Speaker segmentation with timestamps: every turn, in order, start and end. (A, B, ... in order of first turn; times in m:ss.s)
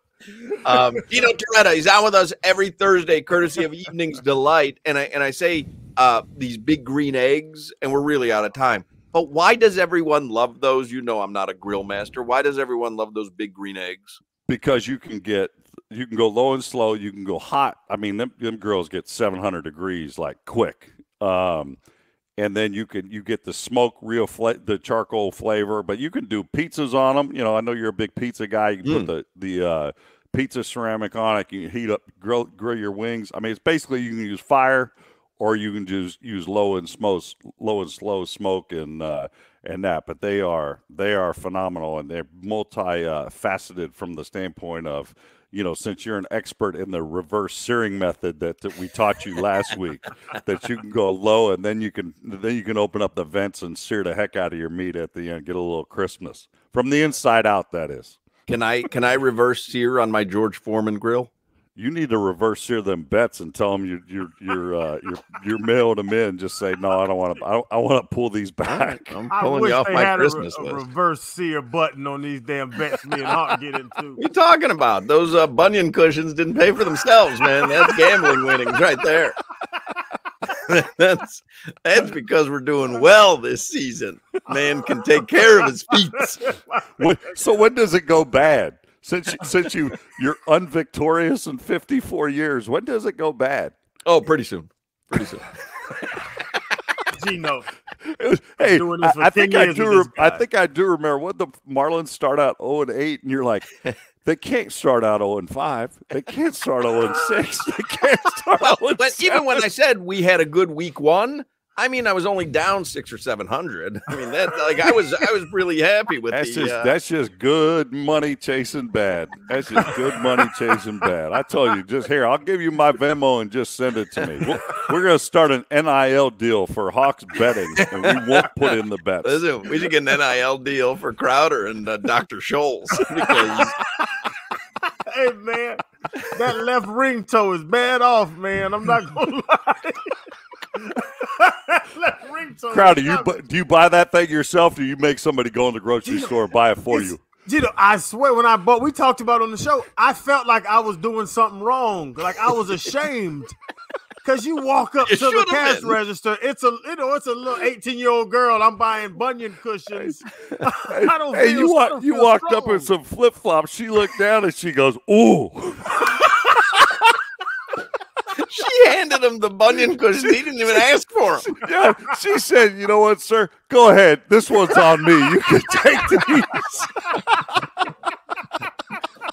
0:00.5-0:14.2 A
0:14.4-0:21.8 B
0:22.4-0:58.2 B
0:28.8-0:29.1 A
0:58.5-1:01.3 A
1:01.8-1:09.2 B
1:09.1-1:10.8 A
1:09.3-1:14.2 C
1:14.2-1:19.4 A
1:17.8-1:18.5 C
1:20.5-1:26.5 A
1:27.0-1:33.7 B
1:34.0-1:35.5 A
1:37.1-1:37.7 C
1:38.0-1:43.7 B
1:38.6-1:40.4 C
1:44.2-1:49.6 B
1:48.6-1:56.9 A
1:56.3-2:09.4 B
2:07.8-2:08.5 A
2:09.2-2:13.8 A
2:15.1-2:20.2 C
2:20.8-2:23.4 C
2:22.7-2:27.2 B
2:26.0-2:26.3 C
2:26.9-2:33.6 C
2:34.2-2:42.9 C
2:35.0-2:36.0 A
2:40.8-2:47.1 B
2:48.3-2:51.6 A
2:51.5-2:57.7 B